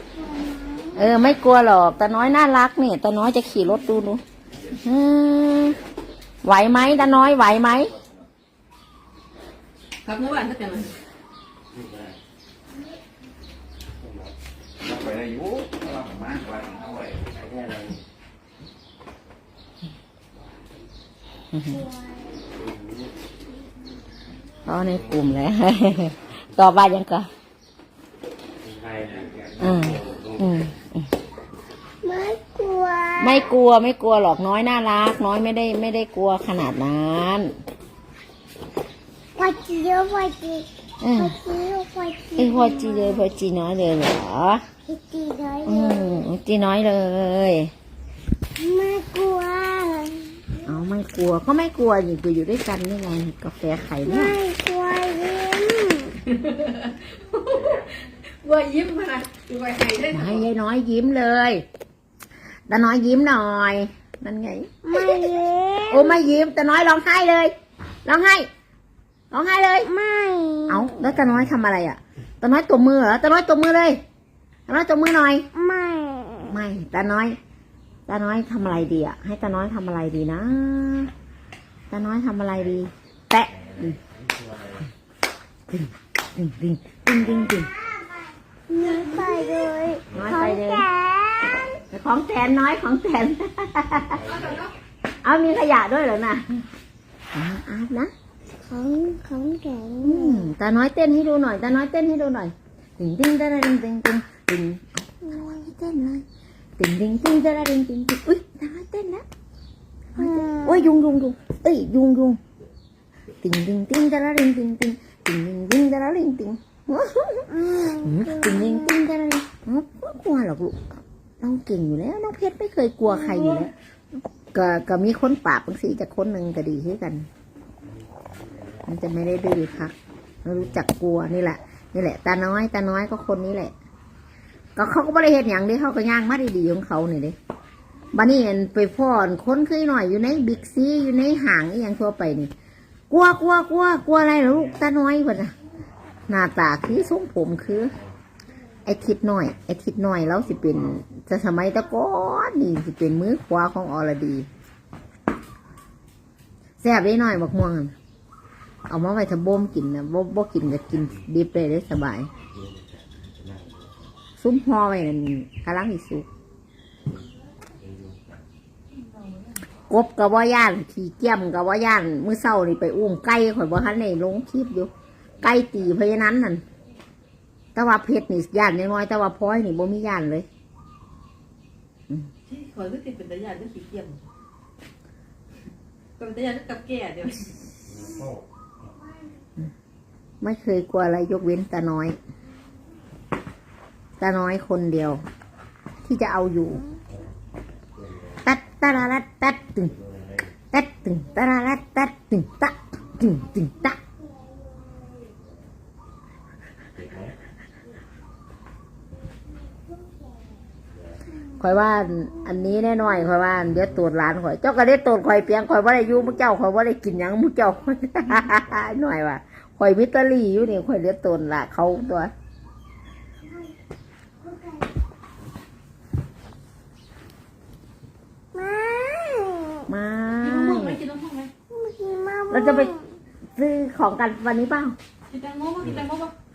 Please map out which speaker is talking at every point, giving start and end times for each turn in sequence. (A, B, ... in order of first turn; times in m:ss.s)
0:00.2-0:01.0 A
0:00.9-0:04.2 B
0:04.8-0:05.8 B
0:06.4-0:07.9 B
0:10.0-0:11.0 C
0:14.9-0:17.0 D
0:21.5-0:21.9 B
0:24.6-0:27.3 B
0:29.6-0:31.1 B
0:32.0-0:33.5 A
0:33.2-0:37.5 B
0:39.4-0:43.3 A
0:41.0-0:41.3 B
0:42.4-0:44.6 B
0:44.9-0:46.3 A
0:45.7-0:47.7 B
0:48.6-0:50.4 A
0:50.6-0:54.3 B
0:54.0-0:56.2 A
0:56.3-1:00.4 C
1:00.1-1:01.7 B
1:02.7-1:05.3 B
1:04.8-1:06.2 A
1:05.9-1:07.5 B
1:08.0-1:08.5 B
1:09.3-1:09.9 B
1:09.8-1:10.9 A
1:10.7-1:14.0 B
1:14.7-1:15.5 B
1:15.6-1:16.5 A
1:16.5-1:17.4 B
1:18.1-1:21.1 B
1:21.9-1:24.0 B
1:25.7-1:27.7 B
1:28.7-1:31.8 A
1:30.1-1:30.8 B
1:31.9-1:34.2 B
1:34.2-1:34.7 C
1:35.2-1:36.5 B
1:37.3-1:38.1 B
1:38.7-1:40.5 A
1:40.0-1:46.2 B
1:46.8-1:49.2 B
1:50.2-1:52.4 B
1:50.2-1:50.9 A
1:53.4-2:03.7 B
1:57.5-1:59.0 A
2:03.2-2:03.7 A
2:04.3-2:07.3 B
2:08.8-2:13.7 B
2:14.8-2:17.4 B
2:18.1-2:22.5 B
2:23.1-2:25.5 B
2:26.3-2:27.9 B
2:28.8-2:34.5 B
2:36.8-2:37.9 B
2:38.9-2:42.3 B
2:44.4-2:46.3 B
2:49.2-2:49.5 C
2:49.9-2:54.9 B
2:55.4-2:56.6 B
2:57.8-3:00.5 B
3:02.5-3:04.2 C
3:06.2-3:07.5 C
3:10.4-3:12.2 B
3:14.2-3:15.2 B
3:16.0-3:16.8 B
3:18.4-3:19.9 B
3:20.7-3:24.0 B
3:31.6-3:42.3 B
3:44.4-3:44.8 A
3:48.5-3:49.9 A
3:49.9-3:51.0 B
3:50.4-3:51.5 C
3:51.7-3:53.1 A
3:52.5-3:52.9 B
3:53.6-3:55.0 B
3:55.3-3:56.3 C